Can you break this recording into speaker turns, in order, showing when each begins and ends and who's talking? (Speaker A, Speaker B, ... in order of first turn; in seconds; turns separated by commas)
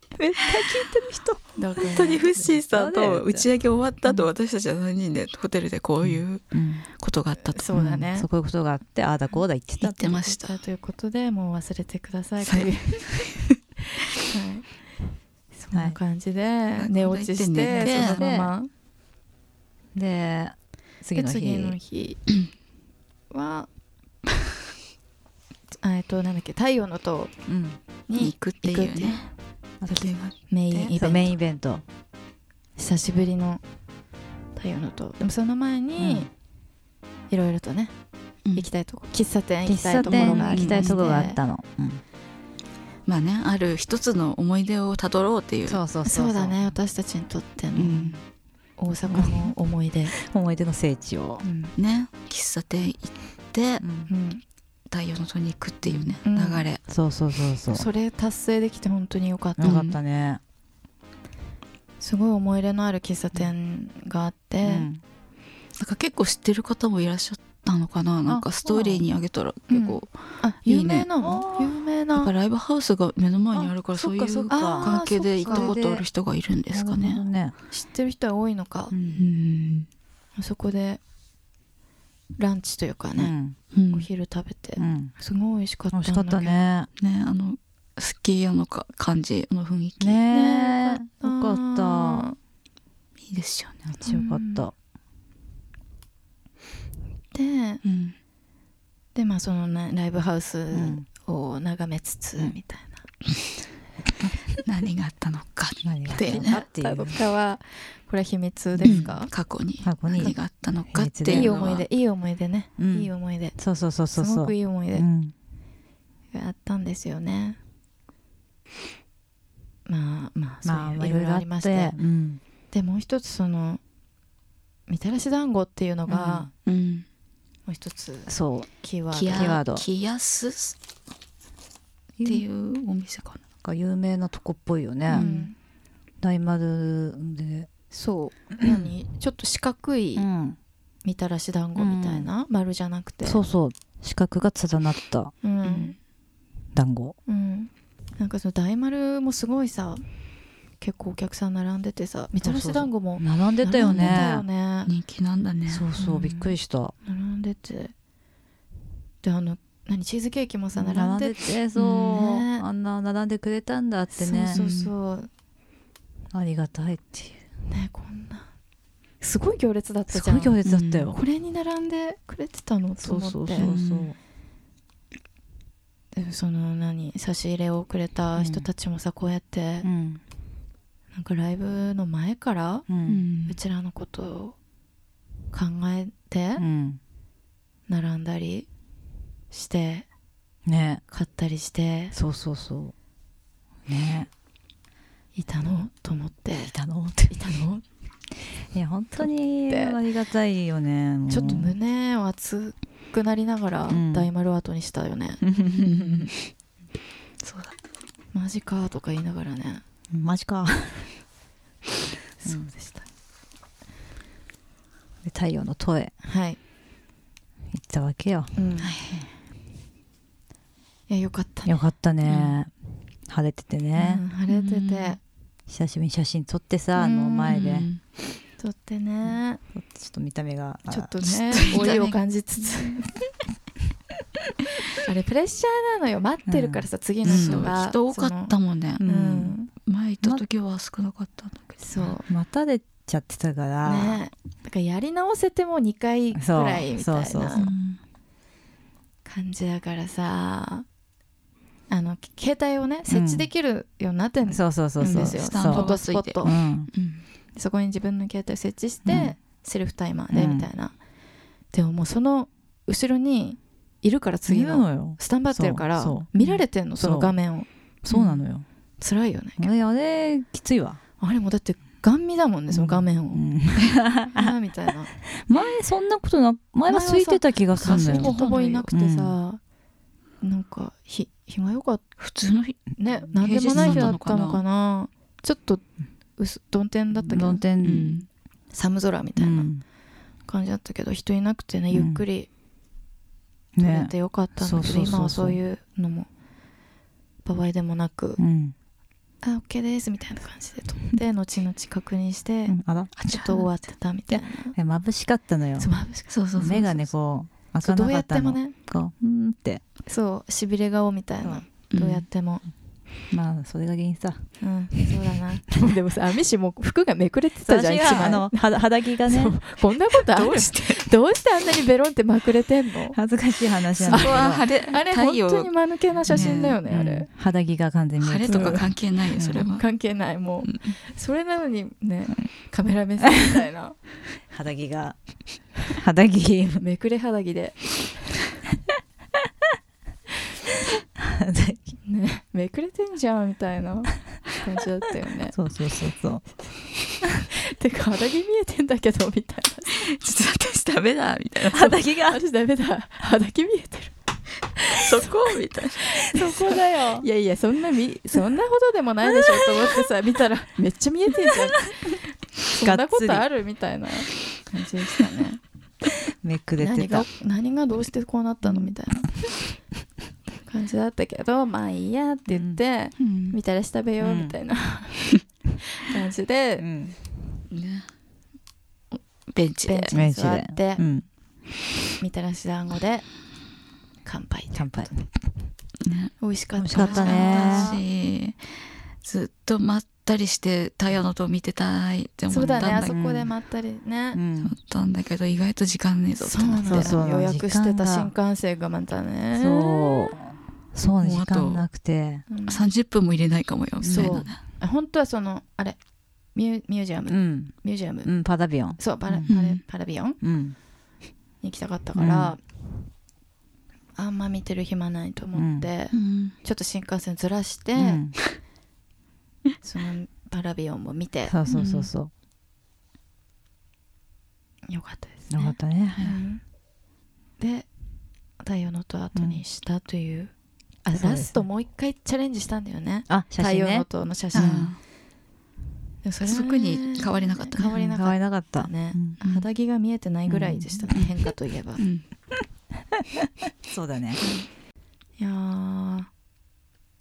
Speaker A: 0.1-1.4, Speaker B: 1.6-2.2, Speaker C: 1.8-7.7, Speaker A: 2.4-3.5, Speaker A: 6.0-6.8, Speaker B: 7.5-8.3, Speaker A: 7.7-10.2, Speaker C: 9.8-10.6, Speaker B: 10.2-13.3, Speaker C: 12.4-13.6, Speaker B: 14.2-14.7, Speaker B: 15.5-18.7, Speaker A: 15.7-16.0, Speaker C: 16.8-18.2, Speaker A: 17.7-18.5, Speaker A: 19.9-21.8, Speaker B: 21.1-22.2, Speaker B: 23.3-23.7, Speaker B: 25.8-27.3, Speaker A: 27.5-27.8, Speaker B: 28.1-29.2, Speaker C: 28.2-29.3, Speaker A: 29.8-30.1, Speaker C: 29.9-30.9, Speaker B: 30.5-31.3, Speaker A: 30.9-31.8, Speaker B: 32.8-33.6, Speaker B: 34.5-36.3, Speaker A: 36.0-36.3, Speaker B: 37.3-37.9, Speaker B: 38.5-41.4, Speaker A: 39.6-42.0, Speaker C: 40.0-41.0, Speaker C: 43.1-45.8, Speaker A: 45.7-46.7, Speaker B: 46.0-48.1, Speaker A: 47.8-48.1, Speaker C: 47.8-48.2, Speaker B: 48.8-50.1, Speaker A: 49.1-49.5, Speaker A: 50.1-51.4, Speaker B: 51.4-51.7, Speaker C: 51.8-53.8, Speaker A: 53.8-54.1, Speaker B: 54.1-54.4, Speaker C: 54.9-56.8, Speaker A: 55.8-56.2, Speaker B: 56.2-56.7, Speaker A: 56.9-57.9, Speaker B: 57.7-59.8, Speaker A: 59.6-60.4, Speaker C: 59.6-60.0, Speaker B: 62.0-64.9, Speaker A: 64.6-65.0, Speaker C: 65.8-71.1, Speaker A: 68.3-69.1, Speaker B: 69.7-72.3, Speaker A: 71.2-71.7, Speaker C: 72.1-77.2, Speaker A: 73.9-76.0, Speaker B: 74.5-75.8, Speaker A: 76.7-77.5, Speaker B: 77.7-79.0, Speaker A: 78.9-79.2, Speaker C: 79.1-79.9, Speaker B: 80.3-81.0, Speaker B: 82.4-83.3, Speaker A: 83.2-83.5, Speaker C: 83.7-84.1, Speaker B: 83.9-86.6, Speaker A: 84.8-85.1, Speaker A: 85.9-86.9, Speaker C: 87.0-90.2, Speaker A: 90.0-92.3, Speaker B: 90.3-92.3, Speaker C: 93.2-93.8, Speaker A: 93.9-94.7, Speaker B: 94.0-94.7, Speaker B: 97.3-97.8, Speaker C: 97.8-98.2, Speaker B: 99.1-103.0, Speaker A: 100.7-101.0, Speaker C: 104.5-106.6, Speaker A: 105.8-107.2, Speaker B: 106.1-109.3, Speaker A: 108.8-109.1, Speaker C: 108.8-111.9, Speaker A: 109.8-111.5, Speaker B: 111.3-113.6, Speaker A: 112.8-115.3, Speaker B: 114.1-115.0, Speaker B: 116.3-117.6, Speaker B: 119.8-122.0, Speaker A: 120.6-122.4, Speaker B: 122.7-123.8, Speaker B: 124.9-126.5, Speaker C: 126.1-127.0, Speaker B: 127.7-129.6, Speaker A: 128.3-128.7, Speaker C: 129.1-130.8, Speaker A: 129.3-129.8, Speaker A: 132.2-132.4, Speaker C: 132.2-133.4, Speaker A: 133.6-135.3, Speaker B: 135.1-135.5, Speaker C: 135.1-135.5, Speaker A: 136.2-137.7, Speaker B: 137.9-140.3, Speaker A: 138.6-138.9, Speaker A: 140.2-140.6, Speaker B: 141.0-143.4, Speaker A: 141.8-142.3, Speaker A: 143.2-145.3, Speaker B: 145.4-146.0, Speaker C: 145.6-145.9, Speaker A: 146.7-147.2, Speaker B: 147.2-150.0, Speaker B: 150.8-154.9, Speaker A: 152.4-154.4, Speaker C: 153.8-154.3, Speaker C: 154.8-155.9, Speaker A: 155.7-156.9, Speaker B: 155.9-157.9, Speaker B: 159.2-162.6, Speaker A: 160.8-164.6, Speaker B: 164.2-165.3, Speaker C: 164.5-164.9, Speaker A: 166.3-167.4, Speaker B: 167.7-168.5, Speaker B: 169.2-170.6, Speaker A: 170.1-171.2, Speaker C: 170.6-171.1, Speaker B: 171.1-173.7, Speaker A: 173.0-174.2, Speaker C: 173.6-174.1, Speaker B: 176.1-179.9, Speaker A: 178.3-178.7, Speaker A: 179.8-180.2, Speaker B: 181.1-182.8, Speaker A: 182.9-183.2, Speaker C: 183.0-183.6, Speaker B: 183.5-184.6, Speaker B: 185.5-186.6, Speaker A: 186.6-187.0, Speaker B: 187.9-188.7, Speaker B: 189.5-190.1, Speaker A: 190.7-191.0, Speaker B: 191.1-192.1, Speaker A: 192.1-192.9, Speaker A: 193.9-194.3, Speaker B: 195.3-196.7, Speaker A: 196.7-197.4, Speaker B: 197.3-197.8, Speaker A: 198.7-201.7, Speaker B: 199.2-200.0, Speaker B: 201.3-205.4, Speaker A: 203.9-204.3, Speaker A: 205.4-206.3, Speaker C: 205.7-206.3, Speaker C: 207.4-207.7, Speaker B: 208.3-209.8, Speaker A: 210.1-211.1, Speaker B: 212.4-213.1, Speaker A: 212.4-212.7, Speaker A: 215.2-216.1, Speaker B: 216.2-216.6, Speaker A: 217.7-218.5, Speaker B: 218.6-218.9, Speaker C: 218.8-219.3, Speaker B: 221.1-221.8, Speaker A: 221.7-222.7, Speaker C: 222.2-222.6, Speaker A: 223.3-224.2, Speaker B: 223.9-225.2, Speaker C: 224.5-225.2, Speaker A: 225.7-227.9, Speaker B: 226.9-227.7, Speaker C: 227.5-228.0, Speaker B: 228.6-229.6, Speaker A: 229.7-231.9, Speaker B: 230.9-233.2, Speaker C: 231.2-232.2, Speaker B: 235.0-239.7, Speaker A: 236.5-237.7, Speaker C: 237.2-239.1, Speaker A: 239.0-239.5, Speaker C: 239.7-242.2, Speaker B: 241.8-242.3, Speaker A: 242.3-244.2, Speaker B: 243.8-247.7, Speaker A: 246.3-247.6, Speaker C: 247.5-248.0, Speaker B: 249.2-250.8, Speaker B: 251.9-256.6, Speaker A: 253.1-253.5, Speaker A: 254.5-255.9, Speaker C: 255.1-257.2, Speaker A: 256.4-256.9, Speaker B: 257.6-260.9, Speaker A: 259.0-259.3, Speaker A: 260.3-260.7, Speaker B: 261.7-267.7, Speaker A: 264.5-266.3, Speaker A: 267.0-267.3, Speaker A: 268.0-268.6, Speaker C: 268.1-268.4, Speaker B: 269.0-269.7, Speaker A: 269.6-271.0, Speaker B: 271.2-275.1, Speaker A: 272.7-274.5, Speaker A: 275.2-278.3, Speaker B: 276.9-279.6, Speaker C: 277.8-278.9, Speaker A: 278.9-279.3, Speaker B: 280.4-282.0, Speaker C: 282.2-284.6, Speaker B: 283.0-285.8, Speaker A: 283.7-284.2, Speaker B: 286.4-287.6, Speaker A: 287.3-288.2, Speaker C: 287.8-288.2, Speaker B: 288.7-289.7, Speaker A: 289.4-289.8, Speaker B: 290.5-292.5, Speaker A: 291.9-292.2, Speaker A: 293.8-295.6, Speaker B: 293.8-296.3, Speaker B: 297.4-298.4, Speaker A: 298.4-298.7, Speaker B: 299.4-304.8, Speaker A: 302.7-303.1, Speaker C: 303.2-303.7, Speaker A: 304.3-305.9, Speaker B: 305.8-307.1, Speaker C: 306.3-306.9, Speaker A: 306.6-309.8, Speaker B: 307.8-308.7, Speaker B: 310.1-312.6, Speaker C: 311.9-312.2, Speaker A: 313.3-314.4, Speaker B: 314.6-323.2, Speaker A: 317.6-319.6, Speaker C: 320.1-321.1, Speaker A: 323.1-324.6, Speaker C: 324.0-325.7, Speaker B: 324.1-327.3, Speaker C: 326.3-326.8, Speaker A: 326.3-329.7, Speaker C: 328.2-329.8, Speaker B: 328.5-328.9, Speaker B: 329.6-334.0, Speaker A: 334.5-335.2, Speaker A: 335.9-336.8, Speaker B: 336.8-337.9, Speaker A: 341.2-341.8, Speaker B: 342.0-345.6, Speaker A: 345.5-346.5, Speaker B: 347.5-350.1, Speaker C: 349.9-352.0, Speaker A: 351.7-352.4, Speaker B: 352.1-354.1, Speaker B: 354.8-355.1, Speaker C: 354.9-356.2, Speaker B: 356.1-365.6, Speaker A: 356.3-357.2, Speaker A: 362.7-363.4, Speaker A: 366.3-367.2, Speaker B: 366.8-369.4, Speaker B: 370.6-375.3, Speaker A: 372.5-372.8, Speaker C: 373.2-373.6, Speaker A: 374.2-374.5, Speaker B: 375.9-376.9, Speaker A: 376.8-377.1, Speaker C: 377.7-378.1, Speaker C: 379.5-380.1, Speaker B: 379.9-381.1, Speaker A: 380.1-381.2, Speaker B: 382.2-383.3, Speaker B: 384.2-385.1, Speaker A: 384.7-385.3, Speaker C: 386.0-386.4, Speaker B: 386.4-388.0, Speaker A: 386.8-387.9, Speaker C: 386.9-388.7, Speaker C: 389.2-393.1, Speaker B: 392.5-394.4, Speaker A: 392.8-393.5, Speaker A: 394.3-394.7, Speaker C: 394.6-397.2, Speaker B: 396.4-400.3, Speaker A: 396.9-398.3, Speaker A: 399.6-402.4, Speaker C: 401.2-401.8, Speaker B: 402.5-402.8, Speaker C: 402.7-404.6, Speaker A: 404.0-404.4, Speaker B: 404.1-406.0, Speaker B: 406.5-408.3, Speaker A: 407.3-407.7, Speaker A: 408.2-409.5, Speaker B: 409.0-410.4, Speaker C: 409.5-409.8, Speaker A: 410.4-410.7, Speaker B: 411.6-412.6, Speaker A: 412.1-412.6, Speaker B: 414.1-418.2, Speaker A: 415.5-415.9, Speaker C: 416.1-416.5, Speaker A: 418.0-418.4, Speaker B: 419.8-421.8, Speaker A: 421.5-422.3, Speaker C: 421.7-422.1, Speaker B: 424.9-426.6, Speaker A: 425.5-426.3, Speaker B: 427.6-427.9, Speaker B: 428.6-430.5, Speaker A: 429.3-429.6, Speaker B: 431.0-434.9, Speaker A: 431.2-431.6, Speaker A: 433.3-434.9, Speaker C: 434.5-435.0, Speaker B: 436.2-442.0, Speaker C: 436.4-438.1, Speaker A: 438.1-439.4, Speaker C: 439.4-439.6, Speaker A: 440.5-441.1, Speaker C: 442.0-442.2, Speaker A: 443.1-444.4, Speaker B: 445.4-446.3